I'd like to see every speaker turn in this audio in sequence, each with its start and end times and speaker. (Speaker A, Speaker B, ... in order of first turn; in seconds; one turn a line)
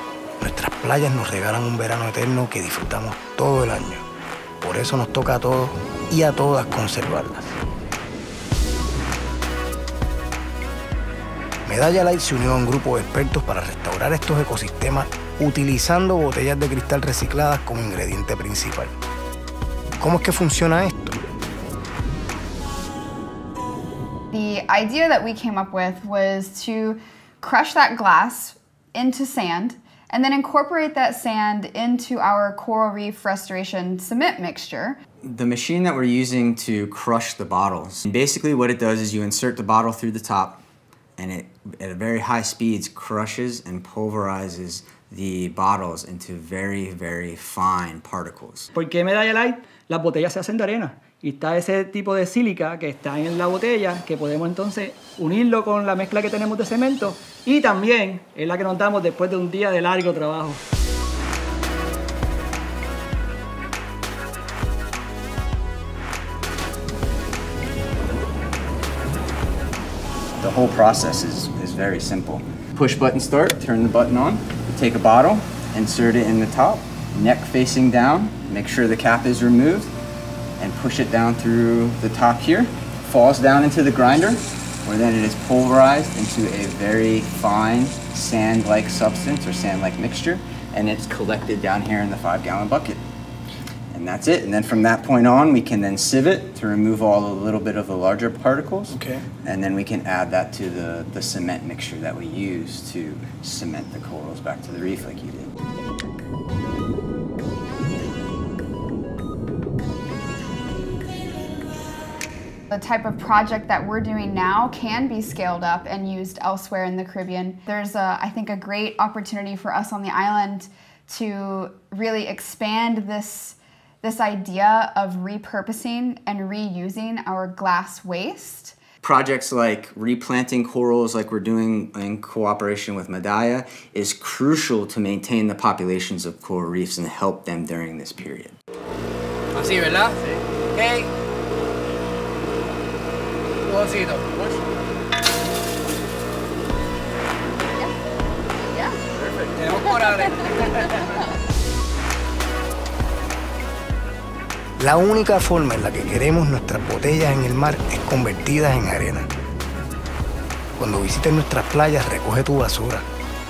Speaker A: 0.4-4.0
Speaker A: 4.6-7.5
Speaker A: 11.7-18.9
Speaker A: 20.0-21.2
Speaker B: 24.3-35.0
Speaker C: 35.2-40.6
Speaker C: 41.2-48.7
Speaker D: 48.7-60.6
Speaker C: 70.4-79.9
Speaker C: 80.6-93.0
Speaker C: 93.9-105.5
Speaker B: 112.7-128.8
Speaker C: 129.0-138.6
Speaker E: 139.6-140.2
Speaker E: 140.7-141.1
Speaker E: 143.6-144.5
Speaker B: 148.7-149.0
Speaker E: 149.6-150.8
Speaker B: 149.7-151.0
Speaker A: 154.8-159.3
Speaker A: 160.8-163.1